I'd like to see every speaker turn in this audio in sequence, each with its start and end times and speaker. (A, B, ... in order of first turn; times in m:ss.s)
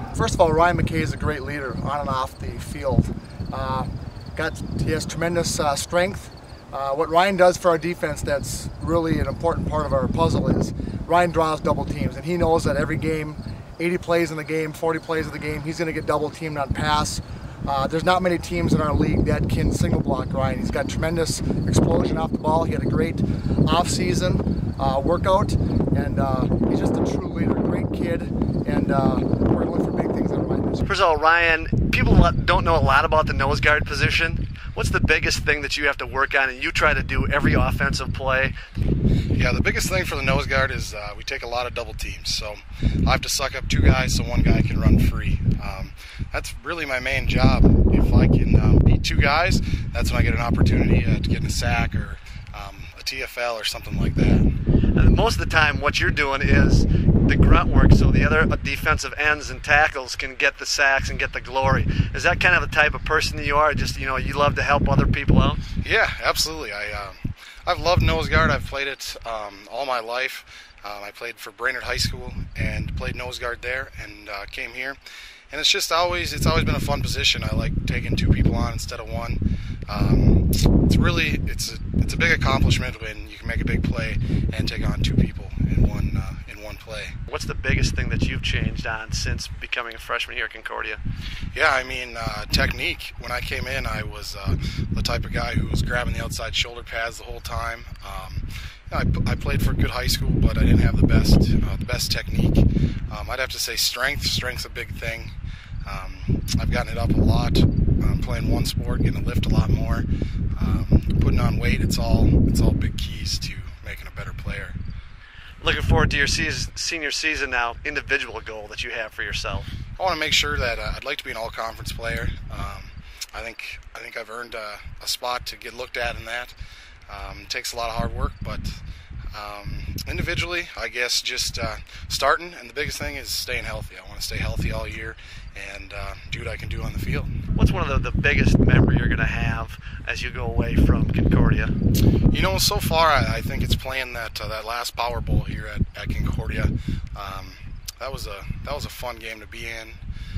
0:00.1-0:30.9 A
0:30.8-0:38.5 B
0:39.3-0:54.5 C
0:55.0-1:05.6 B
1:05.8-1:15.0 C
1:15.5-1:27.2 C
1:27.3-1:31.0 B
1:31.5-1:45.3 C
1:45.8-1:54.8 C
1:55.6-1:59.7 B
2:00.0-2:06.6 C
2:07.1-2:17.3 C
2:17.6-2:21.7 B
2:22.3-2:30.0 C